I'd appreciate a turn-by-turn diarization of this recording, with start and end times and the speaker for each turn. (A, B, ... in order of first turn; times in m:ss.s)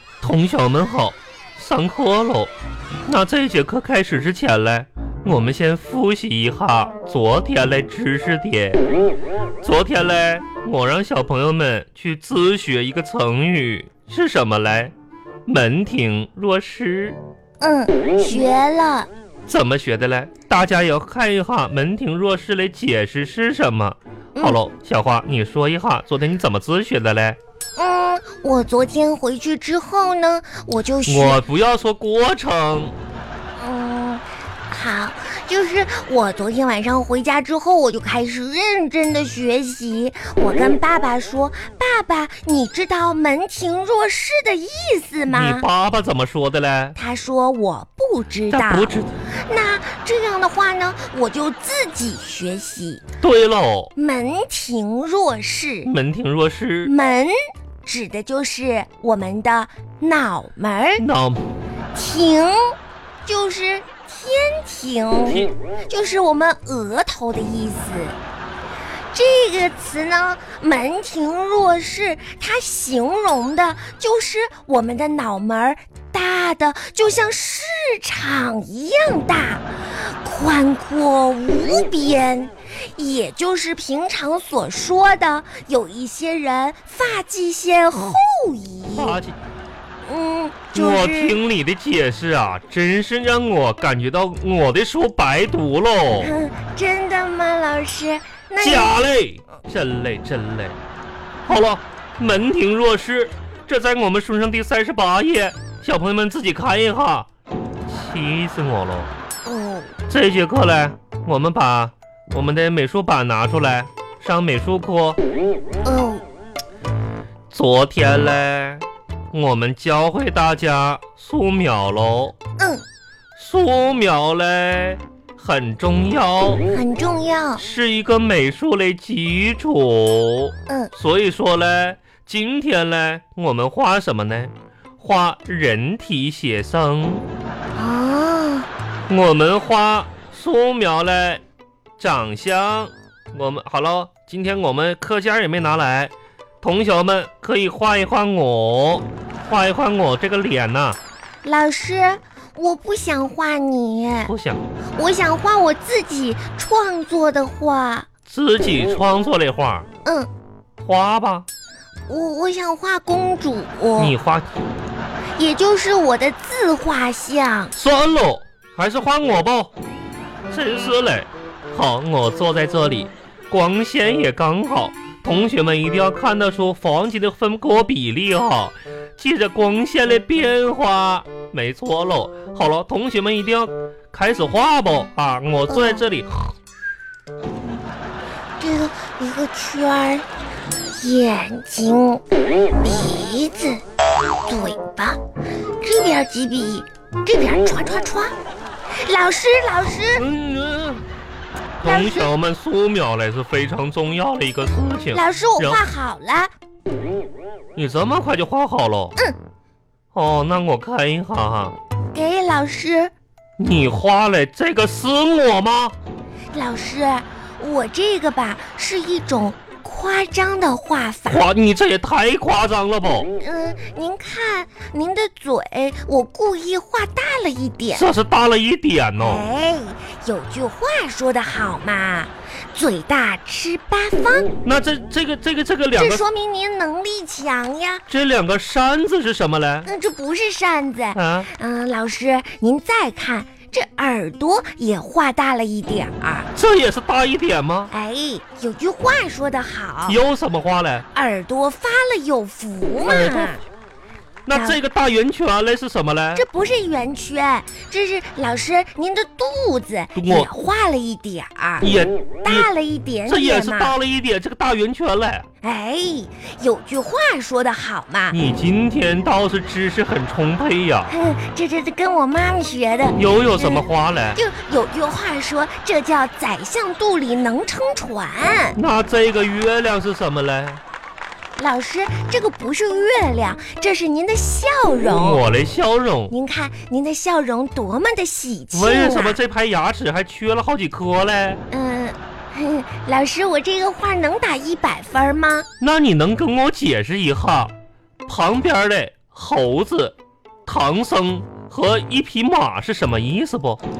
0:00.2-0:02.5 A
0:03.0-0:08.8 A
0:09.6-0:14.9 A
0:15.5-0:17.2 A
0:17.6-0:19.1 B
0:19.5-0:27.4 A
0:24.3-0:24.6 B
0:27.8-0:31.4 B
0:31.1-0:32.9 A
0:33.6-0:45.7 B
0:45.3-0:47.0 A
0:47.0-0:53.0 B
0:48.5-0:49.1 A
0:53.2-0:53.9 A
0:54.0-0:55.9 B
0:55.8-0:56.9 A
0:56.8-1:01.0 B
1:01.0-1:01.4 A
1:01.9-1:08.2 B
1:09.1-1:29.2 B
1:28.9-1:29.4 A
1:30.0-1:31.4 B
1:30.7-1:36.3 A
1:36.1-1:39.0 B
1:38.6-1:40.8 A
1:41.5-1:47.3 A
1:47.9-1:49.1 A
1:49.4-1:50.0 B
1:50.1-1:55.2 A
1:55.8-1:56.2 B
1:57.5-2:02.4 A
2:02.6-2:02.8 B
2:03.4-2:06.6 A
2:06.7-2:07.6 B
2:07.6-2:17.2 A
2:17.7-2:18.7 B
2:19.1-2:21.4 A
2:22.0-2:31.0 A
2:31.4-2:34.3 B
2:34.3-2:34.6 A
2:34.9-2:38.1 B
2:38.3-2:39.9 A
2:40.8-2:41.5 A
2:42.1-2:44.1 B
2:44.0-2:44.5 A
2:45.4-2:47.7 B
2:47.7-2:49.7 A
2:50.5-3:06.5 A
3:08.6-3:10.3 B
3:11.0-3:12.2 B
3:12.8-3:13.8 B
3:14.4-3:15.2 B
3:15.8-3:18.3 B
3:19.0-3:20.2 B
3:20.2-3:21.0 A
3:21.8-3:25.8 A
3:21.8-3:22.3 B
3:25.1-3:26.5 B
3:27.8-3:29.2 A
3:30.1-3:31.7 A
3:32.1-3:33.1 B
3:33.6-3:36.0 A
3:36.5-3:41.5 B
3:41.3-3:43.3 A
3:43.4-3:48.1 B
3:47.9-3:49.4 A
3:49.2-3:54.5 B
3:54.6-3:56.2 A
3:55.9-3:58.0 B
3:58.1-3:59.9 A
3:59.8-4:06.5 B
4:01.1-4:01.5 A
4:06.5-4:07.9 A
4:07.9-4:10.2 B
4:10.1-4:11.0 A
4:11.1-4:13.6 B
4:13.0-4:13.5 A
4:14.4-4:16.4 A
4:14.5-4:14.8 B
4:16.3-4:21.9 B
4:20.1-4:20.5 A
4:21.8-4:22.7 A
4:22.4-4:24.0 B
4:23.2-4:25.5 A
4:25.6-4:28.4 B
4:28.3-4:31.1 A
4:31.1-4:38.8 B
4:33.2-4:34.4 A
4:38.7-4:40.8 A
4:41.6-4:45.4 B
4:45.1-4:46.3 A
4:46.3-4:49.4 B
4:48.7-4:51.6 A
4:51.7-4:55.7 B
4:55.8-4:57.7 A
4:58.3-5:00.1 A
5:00.6-5:03.8 A